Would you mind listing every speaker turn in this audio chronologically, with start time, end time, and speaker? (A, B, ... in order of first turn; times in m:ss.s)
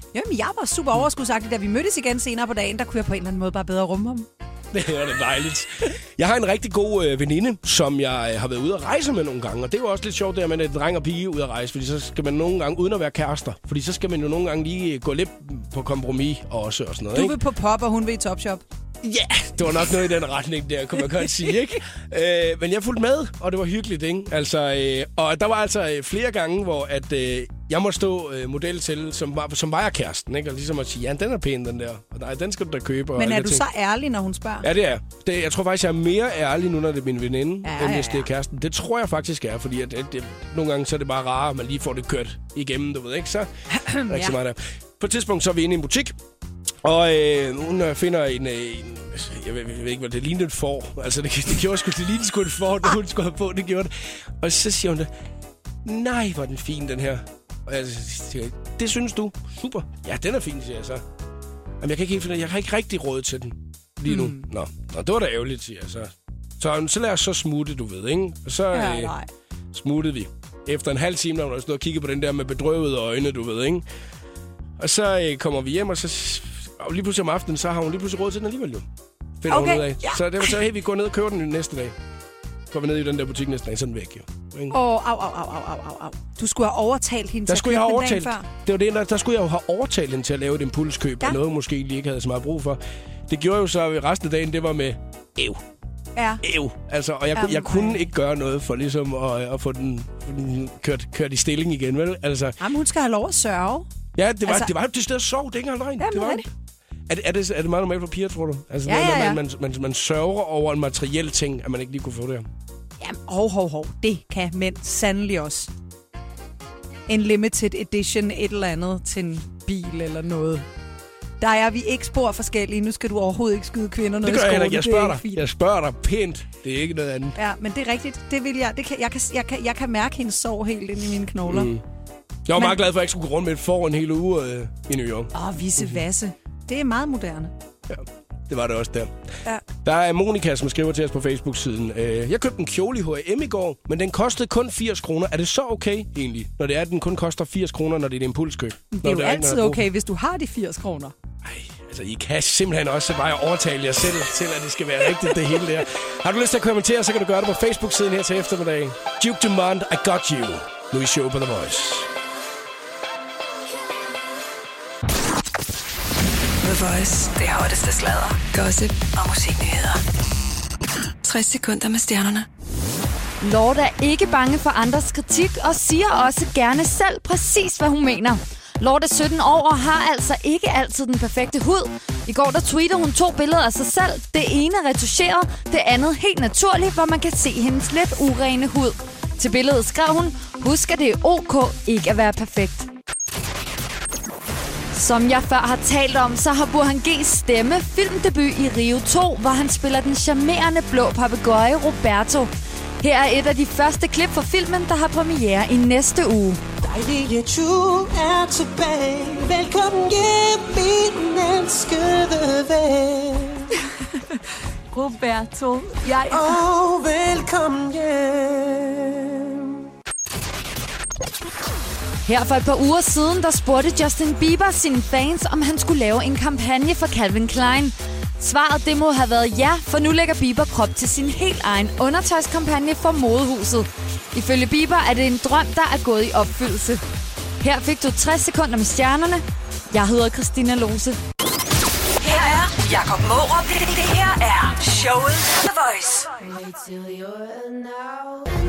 0:00.1-0:04.3 A
0:04.7-0:17.4 B
0:17.1-0:18.6 A
0:19.0-0:33.6 B
0:33.2-0:34.7 A
0:34.6-0:43.5 B
0:37.6-0:38.3 A
0:43.7-0:44.4 A
0:44.0-0:46.2 B
0:46.8-0:55.1 B
0:55.8-1:01.0 B
1:01.8-1:09.1 B
1:04.1-1:04.5 A
1:08.7-1:09.3 A
1:09.7-1:13.8 B
1:14.8-1:18.9 B
1:19.4-1:22.0 B
1:19.5-1:20.6 A
1:22.7-1:24.8 B
1:24.7-1:28.5 A
1:27.5-1:35.6 B
1:36.2-1:36.4 A
1:36.4-1:42.6 B
1:37.3-1:38.1 A
1:42.6-1:43.9 A
1:44.2-1:46.5 B
1:44.4-1:44.7 A
1:46.0-1:46.4 A
1:47.1-1:52.5 B
1:48.9-1:49.4 A
1:53.0-1:55.7 A
1:57.1-2:00.7 A
2:01.4-2:05.4 A
2:04.2-2:07.4 B
2:07.4-2:11.7 A
2:11.5-2:11.8 B
2:12.5-2:16.0 B
2:15.3-2:17.5 A
2:17.9-2:19.1 B
2:19.8-2:29.8 B
2:28.9-2:31.1 A
2:31.4-2:42.1 B
2:46.6-2:50.0 C
2:51.2-2:52.5 C
2:53.4-3:12.9 D
3:14.9-3:22.5 D
3:23.0-3:26.6 D
3:26.8-3:33.8 E
3:35.0-3:36.0 D
3:35.9-3:36.5 A
3:36.3-3:39.9 E
3:42.3-3:57.0 D
3:57.6-4:01.2 D
4:02.2-4:06.4 C